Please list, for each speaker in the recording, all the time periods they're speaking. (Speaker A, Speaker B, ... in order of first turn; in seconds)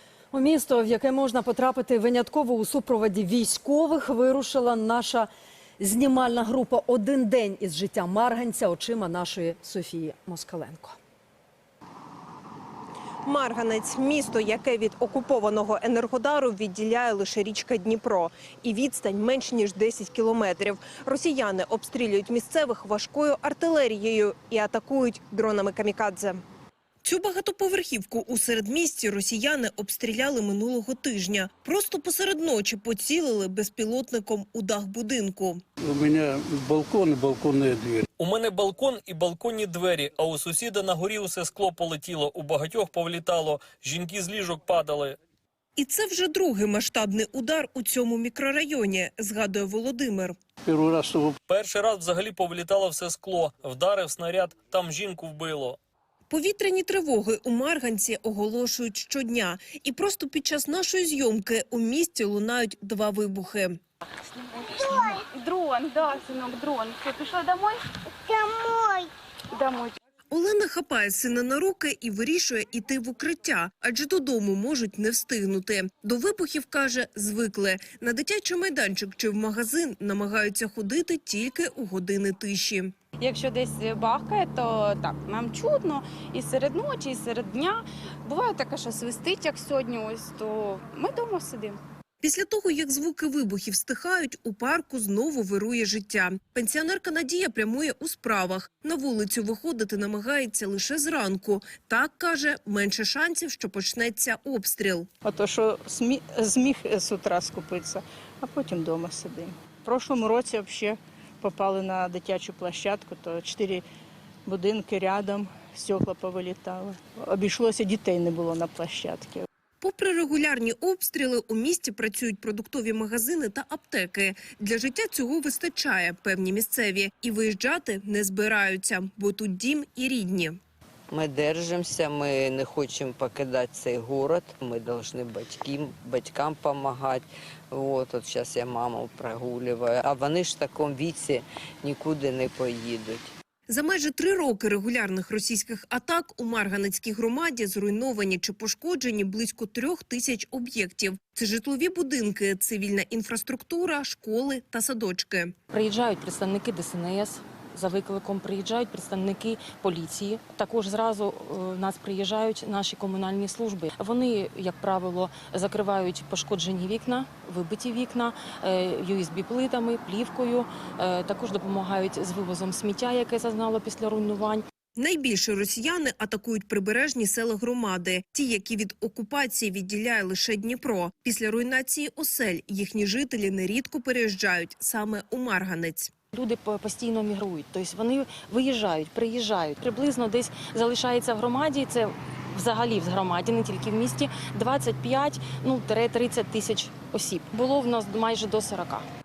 Speaker A: 0.3-11.0
Speaker B: 13.2-26.4, 27.0-35.6, 45.8-50.4, 56.3-63.8, 70.3-82.9, 92.2-105.1, 119.8-130.6, 143.7-155.5, 175.0-186.1
Speaker C: 35.8-38.1, 50.6-51.4
Speaker D: 38.2-45.2, 51.5-55.8
Speaker E: 64.6-67.8, 69.5-70.0, 83.2-91.8
Speaker F: 105.2-113.8, 114.5-119.5
Speaker G: 131.1-143.3
Speaker H: 155.7-174.7, 186.3-199.1